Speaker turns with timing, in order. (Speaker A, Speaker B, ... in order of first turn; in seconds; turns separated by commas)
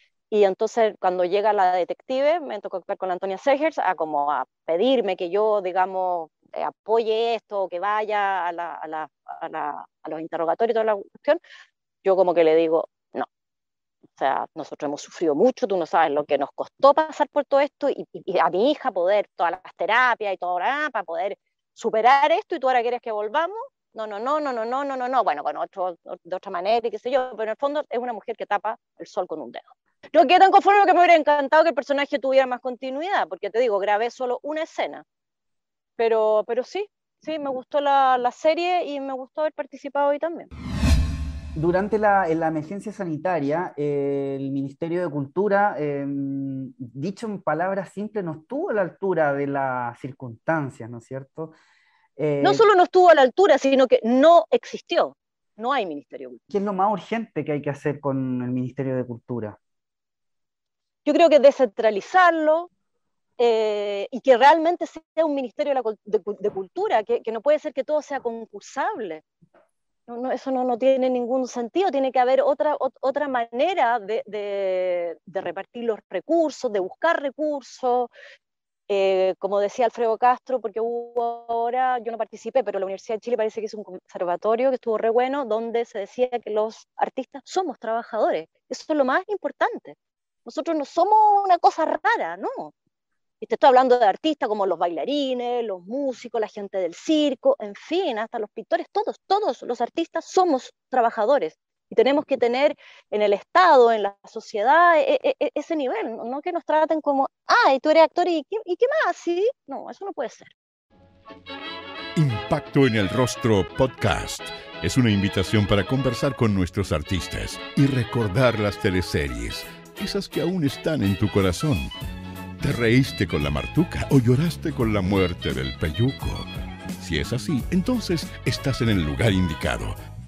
Speaker A: 0.3-11.4, Speaker A: 12.0-13.3, Speaker A: 14.2-35.0, Speaker A: 36.0-40.5, Speaker B: 41.5-51.5, Speaker B: 52.2-52.6, Speaker A: 52.4-56.4, Speaker B: 56.5-59.6, Speaker A: 61.0-62.7, Speaker A: 63.4-69.2, Speaker A: 70.1-78.1, Speaker A: 78.9-92.7, Speaker A: 93.4-110.5, Speaker C: 112.2-121.9, Speaker C: 122.6-126.5, Speaker C: 127.0-129.9